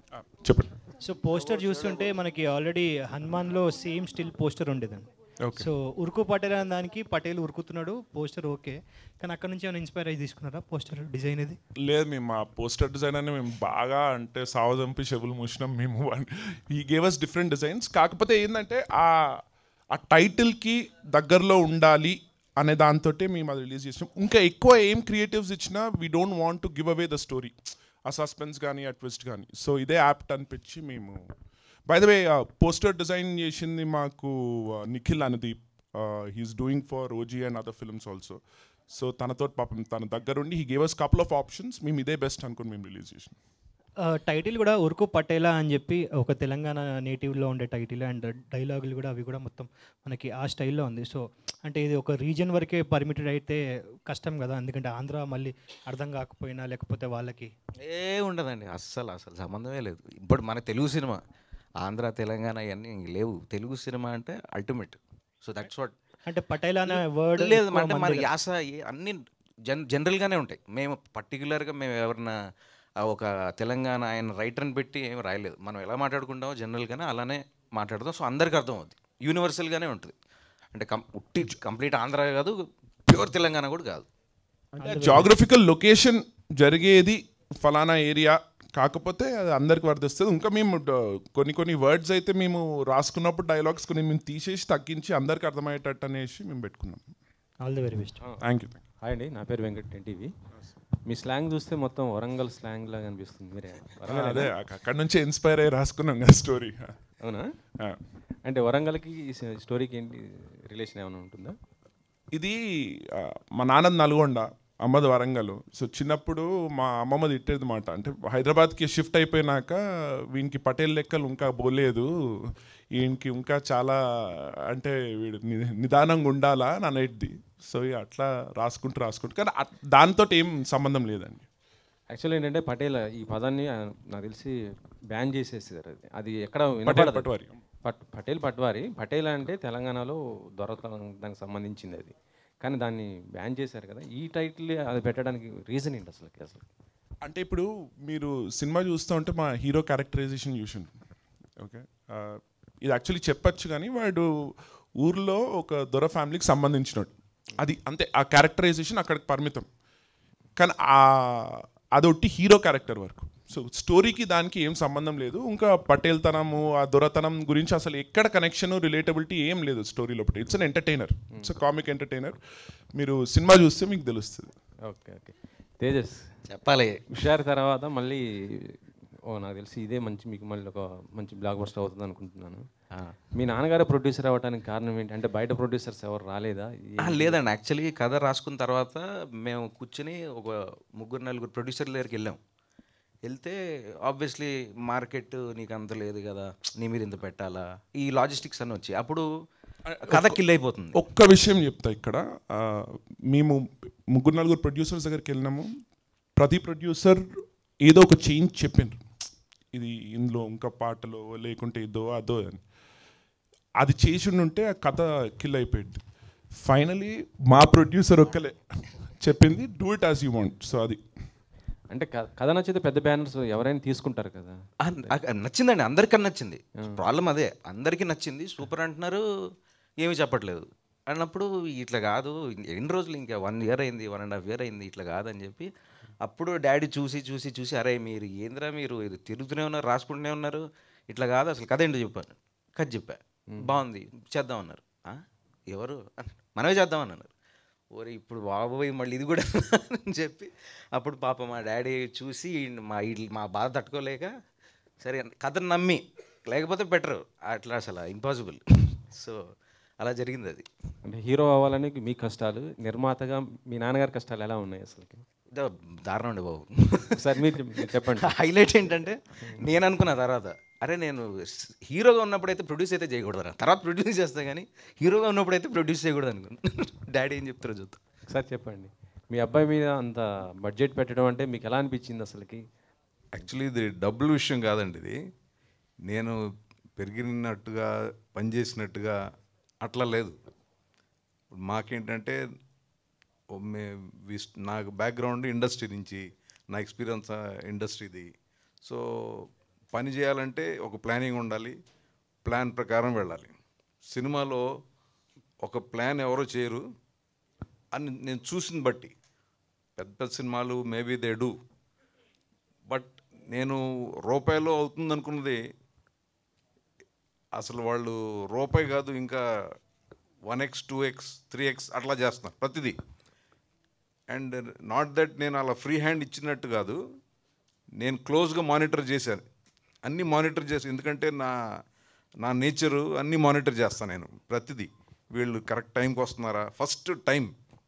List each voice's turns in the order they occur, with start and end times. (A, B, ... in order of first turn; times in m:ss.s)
0:00.2-0:00.7 A
0:01.0-0:11.6 B
0:05.4-0:05.7 A
0:11.8-0:19.4 A
0:19.9-0:31.3 A
0:31.9-0:43.4 A
0:44.1-0:57.5 B
0:57.8-1:01.2 C
1:01.8-1:06.0 C
1:06.2-1:08.3 B
1:06.9-1:12.4 C
1:13.0-1:20.1 C
1:20.7-1:22.6 C
1:23.1-1:24.0 C
1:24.7-1:25.3 B
1:24.8-1:37.1 A
1:37.6-1:38.2 B
1:38.4-1:38.7 A
1:39.0-1:40.3 D
1:41.1-1:44.5 D
1:44.1-1:47.0 A
1:48.4-1:51.5 D
1:53.2-1:59.8 A
2:00.3-2:02.0 A
2:03.0-2:04.0 A
2:04.7-2:11.4 A
2:12.1-2:14.5 D
2:15.1-2:26.6 D
2:16.8-2:17.6 A
2:27.2-2:30.9 A
2:31.6-2:34.3 A
2:35.0-2:39.7 A
2:40.6-2:52.4 A
2:52.9-2:54.5 A
2:54.9-2:56.2 D
2:56.5-2:57.0 C
2:57.1-2:58.7 D
2:59.3-3:02.6 D
3:03.3-3:07.4 D
3:07.0-3:12.4 C
3:13.2-3:19.2 C
3:19.9-3:20.4 A
3:20.0-3:21.0 C
3:20.9-3:23.6 A
3:24.1-3:25.7 A
3:26.4-3:29.0 A
3:29.7-3:32.6 A
3:33.8-3:36.0 A
3:36.6-3:41.0 A
3:41.9-3:44.5 D
3:44.8-3:49.2 C
3:50.0-3:55.7 C
3:56.2-4:07.3 C
4:03.5-4:03.8 D
4:07.9-4:14.3 C
4:15.0-4:19.4 C
4:20.0-4:20.6 C
4:21.0-4:25.2 D
4:25.5-4:38.0 C
4:27.2-4:28.3 D
4:38.3-4:42.6 D
4:43.4-4:45.1 E
4:46.1-4:46.4 E
4:47.0-4:49.2 E
4:49.8-4:50.4 E
4:51.6-4:52.4 E
4:53.5-4:58.3 E
4:58.8-5:01.8 E
5:02.4-5:03.5 E
5:04.1-5:04.6 E
5:05.6-5:06.8 E
5:07.9-5:09.1 E
5:10.0-5:11.5 E
5:12.9-5:15.6 E
5:17.6-5:19.4 E
5:20.4-5:23.0 E
5:24.3-5:27.0 E
5:28.0-5:29.4 E
5:30.0-5:31.5 E
5:32.4-5:37.5 E